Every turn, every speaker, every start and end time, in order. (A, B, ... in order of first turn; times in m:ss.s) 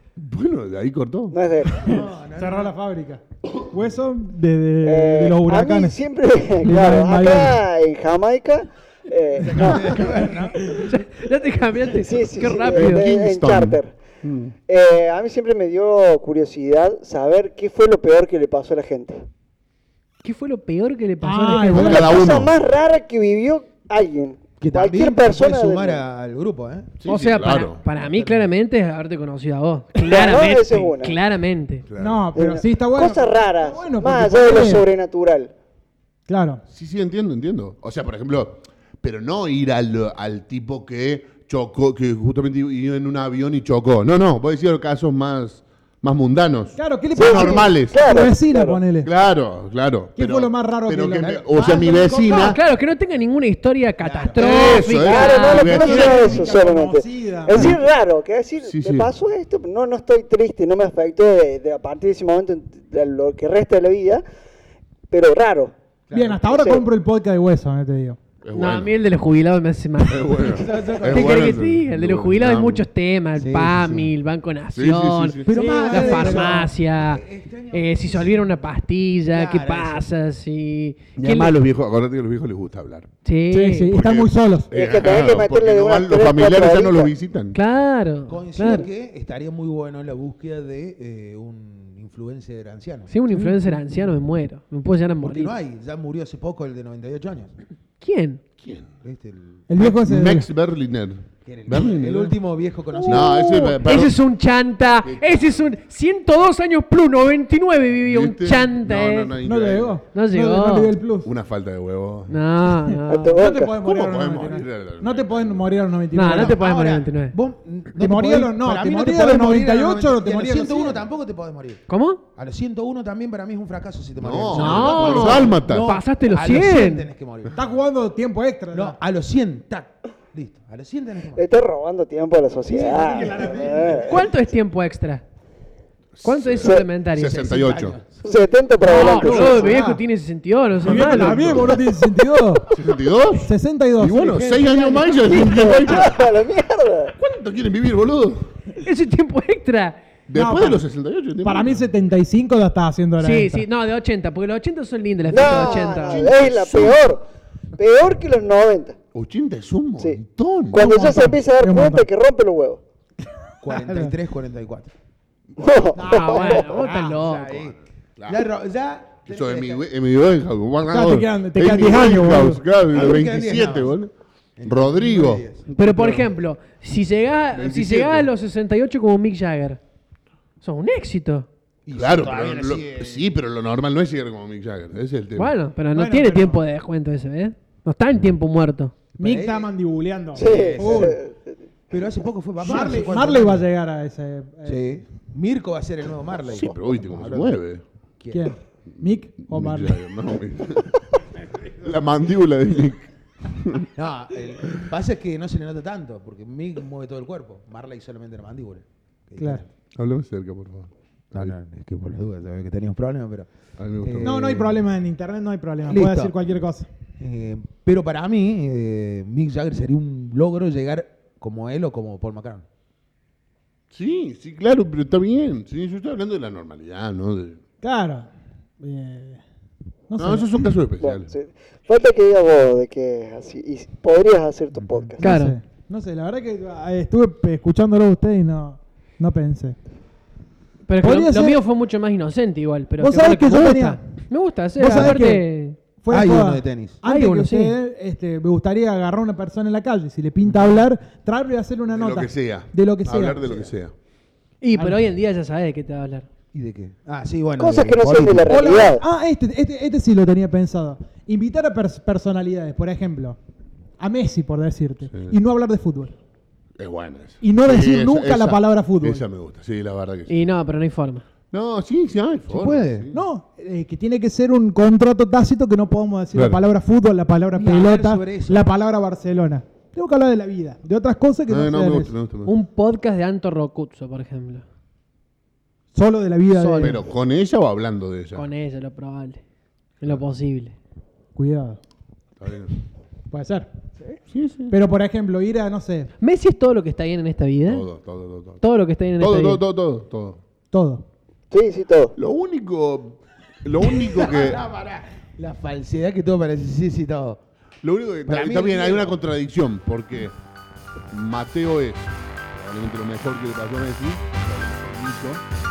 0:00.2-0:01.4 A
0:01.3-0:02.0 B
0:01.8-0:02.7 C
0:01.9-0:06.0 D
0:04.8-0:10.2 B
0:06.6-0:07.6 D
0:09.4-0:10.9 C
0:10.7-0:13.1 E
0:11.9-0:14.0 B
0:12.6-0:14.5 A
0:14.7-0:19.2 B
0:20.2-0:22.0 E
0:21.2-0:22.2 D
0:21.8-0:22.5 A
0:21.8-0:26.0 B
0:24.6-0:27.0 C
0:27.0-0:27.8 A
0:27.1-0:31.8 E
0:28.0-0:28.5 C
0:30.0-0:31.2 B
0:31.9-0:32.3 A
0:32.0-0:34.8 D
0:32.4-0:35.5 B
0:36.3-0:36.6 D
0:36.7-0:48.2 A
0:46.8-0:49.1 D
0:47.2-0:48.8 B
0:49.0-0:52.6 A
0:50.2-0:51.4 D
0:51.2-0:52.6 C
0:52.2-0:55.9 E
0:54.0-0:54.8 C
0:54.4-0:56.5 A
0:54.9-1:04.2 B
0:55.5-0:57.8 D
0:57.5-0:57.8 A
0:58.6-0:59.1 A
1:05.1-1:05.7 B
1:06.1-1:06.4 C
1:06.1-1:08.2 D
1:06.4-1:06.8 B
1:08.4-1:08.9 A
1:08.5-1:21.6 E
1:10.1-1:12.9 A
1:10.4-1:11.6 C
1:13.4-1:14.1 C
1:14.8-1:15.5 A
1:15.4-1:18.5 C
1:15.5-1:16.7 D
1:19.3-1:20.0 C
1:21.2-1:23.1 A
1:23.2-1:23.9 E
1:23.5-1:24.7 D
1:23.9-1:27.6 A
1:24.7-1:27.1 B
1:27.5-1:28.9 E
1:28.3-1:33.1 C
1:33.1-1:35.6 E
1:35.2-1:37.5 C
1:38.0-1:38.4 E
1:38.6-1:38.9 A
1:39.0-1:39.6 C
1:39.7-1:40.5 D
1:39.8-1:42.4 A
1:41.4-1:43.7 C
1:42.9-1:49.3 E
1:43.1-1:44.2 A
1:45.0-1:45.6 A
1:48.0-1:50.0 A
1:49.4-1:51.3 D
1:50.1-1:51.0 E
1:51.2-1:52.4 A
1:52.3-1:53.4 E
1:52.9-1:56.6 D
1:53.1-1:53.8 B
1:53.8-1:55.8 A
1:56.1-1:57.4 E
1:56.3-2:01.8 C
1:58.0-2:01.0 D
2:01.9-2:02.2 E
2:02.4-2:07.6 C
2:04.2-2:05.9 A
2:04.5-2:07.1 E
2:07.6-2:09.0 D
2:08.7-2:11.4 C
2:11.4-2:14.2 B
2:12.7-2:14.1 C
2:12.7-2:14.2 D
2:14.1-2:15.2 E
2:16.1-2:18.0 A
2:16.2-2:17.7 E
2:17.3-2:18.2 C
2:18.2-2:19.7 B
2:18.8-2:21.7 E
2:18.9-2:20.0 D
2:20.8-2:22.8 D
2:20.8-2:21.8 A
2:22.7-2:26.2 A
2:23.4-2:24.3 D
2:24.2-2:25.5 C
2:25.3-2:27.2 B
2:27.2-2:28.5 A
2:28.8-2:30.0 E
2:30.3-2:31.8 A
2:30.3-2:30.8 D
2:31.4-2:33.6 D
2:33.2-2:36.3 E
2:35.3-2:37.3 B
2:36.1-2:37.1 A
2:37.8-2:39.0 B
2:39.1-2:40.8 A
2:40.7-2:42.8 B
2:40.7-2:42.1 D
2:43.6-2:44.9 C
2:43.7-2:44.2 D
2:45.6-2:46.8 B
2:46.0-2:47.2 D
2:46.0-2:47.7 E
2:46.6-2:49.8 C
2:48.2-2:48.5 A
2:49.3-2:54.1 A
2:50.9-2:52.6 D
2:52.9-2:53.9 C
2:54.6-2:55.6 C
2:54.6-2:56.3 A
2:55.8-2:59.8 E
2:57.5-2:58.3 A
3:00.6-3:01.5 E
3:01.8-3:03.3 C
3:01.9-3:05.5 A
3:05.4-3:08.9 E
3:05.9-3:06.6 D
3:09.2-3:09.7 C
3:09.2-3:11.2 D
3:10.4-3:11.4 B
3:10.4-3:11.2 C
3:11.9-3:13.6 C
3:12.6-3:14.8 D
3:14.6-3:17.6 C
3:16.5-3:17.8 A
3:18.2-3:18.5 C
3:18.3-3:20.0 D
3:19.5-3:21.0 A
3:21.7-3:23.9 A
3:24.0-3:29.7 C
3:29.4-3:29.6 D
3:30.0-3:31.5 A
3:31.3-3:33.5 C
3:33.8-3:34.7 A
3:34.0-3:34.7 C
3:34.2-3:36.9 D
3:35.9-3:36.3 C
3:37.2-3:42.6 C
3:43.9-3:47.6 A
3:47.8-3:48.3 D
3:48.8-3:49.4 D
3:50.1-3:50.5 D
3:50.2-3:51.3 A
3:51.0-3:55.2 B
3:54.8-3:55.1 C
3:55.2-3:59.8 D
3:55.2-3:55.6 E
4:00.9-4:05.8 E
4:01.0-4:01.6 D
4:03.0-4:04.0 D
4:04.8-4:13.4 D
4:04.8-4:05.2 C
4:06.1-4:07.0 C
4:07.0-4:07.8 E
4:11.9-4:13.9 A
4:13.4-4:13.7 C
4:14.6-4:16.3 E
4:14.7-4:15.0 D
4:16.5-4:18.9 C
4:17.6-4:19.0 B
4:18.5-4:23.4 D
4:24.0-4:26.1 D
4:26.8-4:30.3 A
4:27.4-4:29.2 D
4:30.3-4:31.2 E
4:31.5-4:33.2 A
4:32.5-4:33.1 C
4:33.1-4:42.1 D
4:36.3-4:36.6 A
4:37.6-4:38.6 C
4:41.5-4:42.6 A
4:42.5-4:44.6 E
4:45.9-4:47.0 D
4:46.5-4:47.0 E
4:46.8-4:48.5 A
4:48.4-4:49.4 E
4:50.0-4:50.8 E
4:51.4-4:51.8 D
4:52.4-4:52.7 A
4:53.3-4:53.7 D
4:54.3-4:54.8 A
4:54.7-4:56.1 D
4:56.2-4:57.9 E
4:57.7-4:58.6 A
4:58.6-4:59.6 E
4:59.2-5:00.4 A
5:00.7-5:01.0 D
5:01.5-5:02.2 B
5:02.2-5:04.6 A
5:03.9-5:07.4 C
5:07.8-5:10.4 A
5:08.3-5:09.2 C
5:11.1-5:15.4 A